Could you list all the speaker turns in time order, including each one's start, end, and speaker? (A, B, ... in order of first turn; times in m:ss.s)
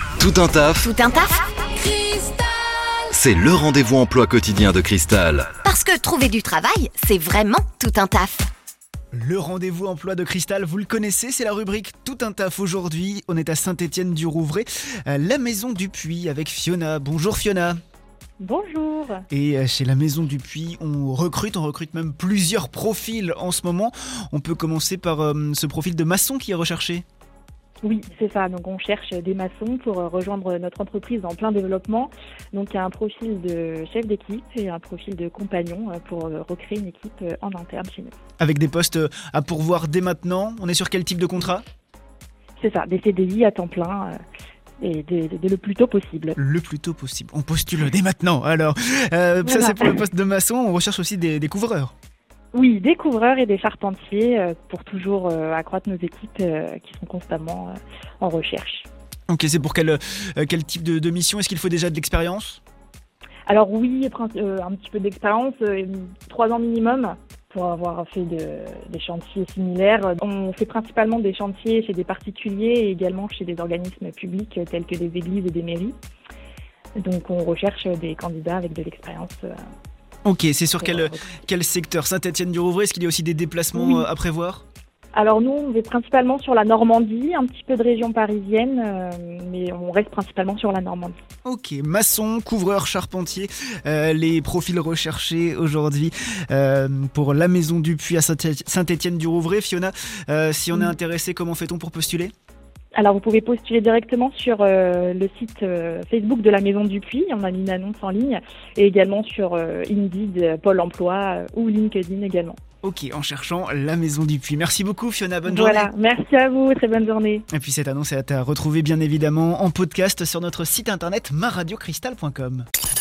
0:00.2-0:00.9 A
0:00.8-0:01.4 B
0:03.1-0:05.5 A
0:05.6-0:08.5 B
0:09.1-0:17.8 C
0:18.4-0:19.2 D
0:19.3-0:27.0 C
0:27.8-0:38.2 D
0:38.4-0:41.6 C
0:42.6-0:44.2 D
0:44.8-0:46.4 D
0:46.4-0:51.9 C
0:49.4-0:49.9 D
0:52.5-0:58.9 D
0:59.3-1:02.6 C
1:03.5-1:16.0 D
1:17.0-1:19.5 D
1:20.2-1:24.6 C
1:20.8-1:21.3 D
1:23.8-1:24.1 D
1:25.2-1:31.2 D
1:31.4-1:42.3 C
1:43.0-1:52.6 D
1:52.8-1:55.9 C
1:55.5-1:57.5 D
1:57.5-2:02.7 C